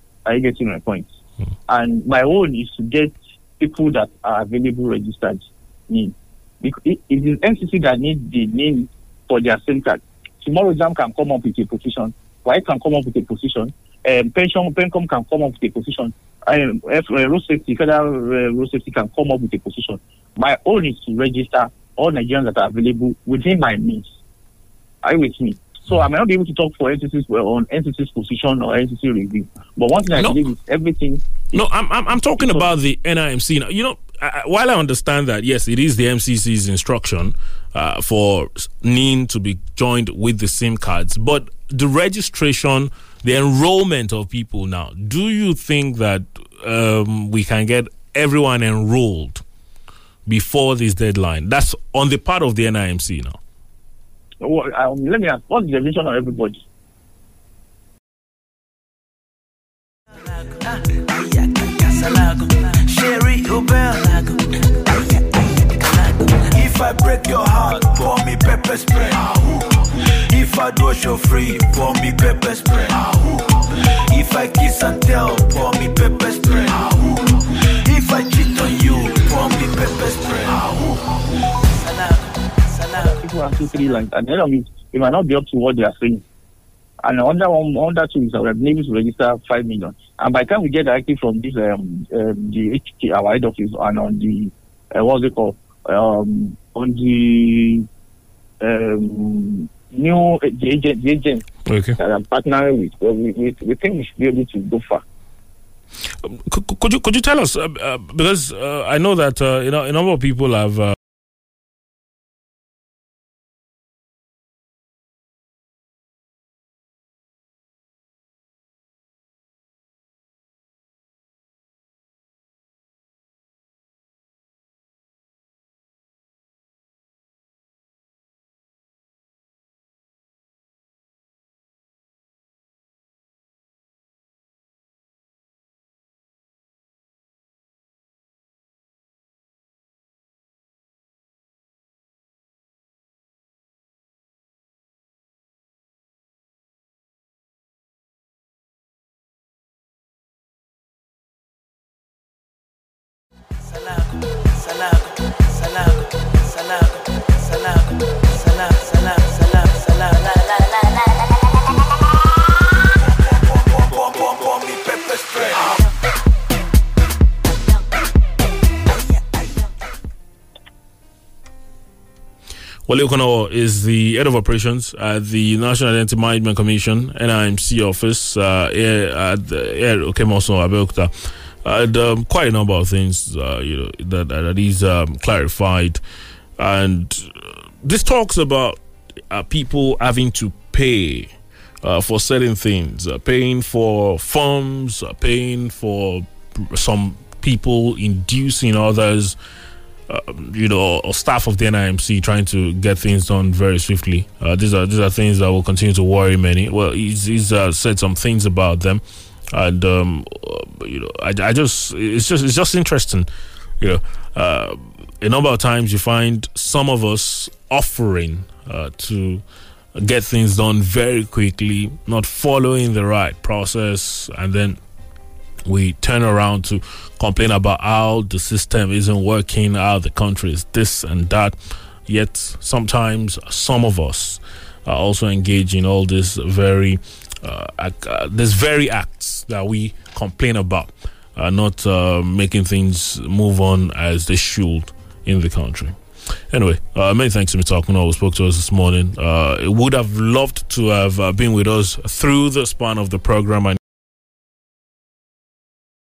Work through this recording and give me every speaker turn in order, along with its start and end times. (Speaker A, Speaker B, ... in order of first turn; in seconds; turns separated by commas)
Speaker A: 0.3-1.1, Speaker A: 1.7-24.1, Speaker A: 25.0-31.4, Speaker B: 31.5-49.4, Speaker A: 32.4-32.7, Speaker B: 50.3-53.4, Speaker A: 54.4-56.6, Speaker C: 60.4-65.1, Speaker C: 65.8-81.2, Speaker C: 81.7-82.2, Speaker A: 83.0-86.2, Speaker A: 87.0-97.9, Speaker A: 98.6-101.5, Speaker B: 101.7-102.0, Speaker A: 102.0-105.0, Speaker B: 106.2-111.0, Speaker C: 154.0-155.1, Speaker C: 155.6-160.4, Speaker C: 163.3-165.8, Speaker B: 172.9-181.1, Speaker B: 181.6-186.0, Speaker B: 186.6-188.8, Speaker B: 189.3-191.3, Speaker B: 191.8-199.4, Speaker B: 200.1-213.3, Speaker B: 213.8-219.4, Speaker B: 220.0-224.8, Speaker B: 225.7-231.6, Speaker B: 232.1-246.0, Speaker B: 246.5-253.8